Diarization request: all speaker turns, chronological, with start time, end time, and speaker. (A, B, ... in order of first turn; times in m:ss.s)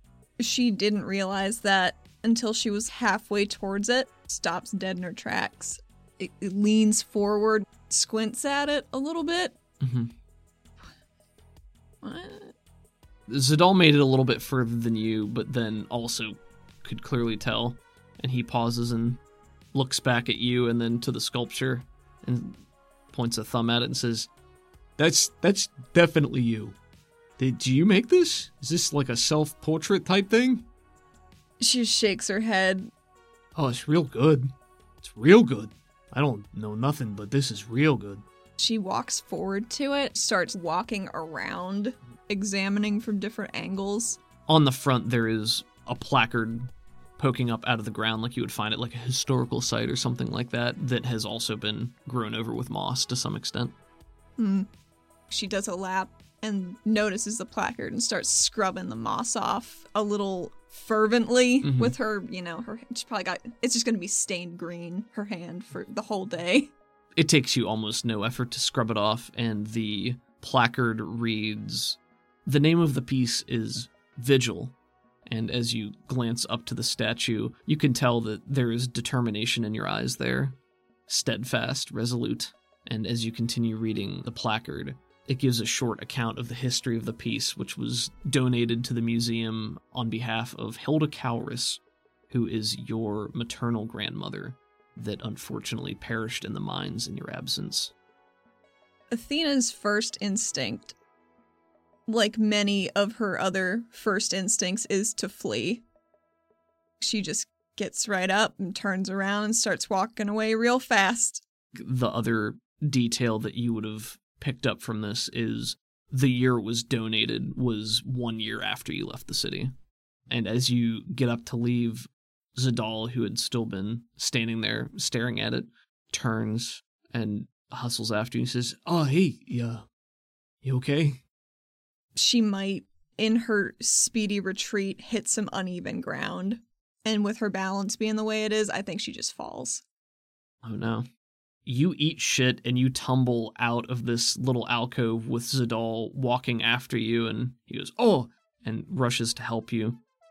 0:00.4-0:09.6 A
0:09.8-0:10.1 B
0:12.0-0:12.5 A
0:13.3-0:19.2 B
0:19.7-0:24.3 B
0:25.0-0:26.8 B
0:27.4-0:30.6 B
0:31.6-0:32.9 A
0:33.6-0:34.5 B
0:35.0-0:38.2 B
0:38.6-0:44.2 A
0:44.5-0:53.7 B
0:54.4-0:54.7 A
0:55.3-1:06.7 A
1:01.6-1:01.9 B
1:07.2-1:14.8 B
1:15.3-1:20.6 B
1:21.1-1:37.9 B
1:39.1-1:41.0 A
1:42.1-1:45.8 A
1:47.0-1:51.4 A
1:51.8-1:59.7 B
2:00.3-2:09.8 B
2:10.6-2:11.2 B
2:12.2-2:19.8 A
2:20.6-2:21.1 B
2:21.7-2:30.0 B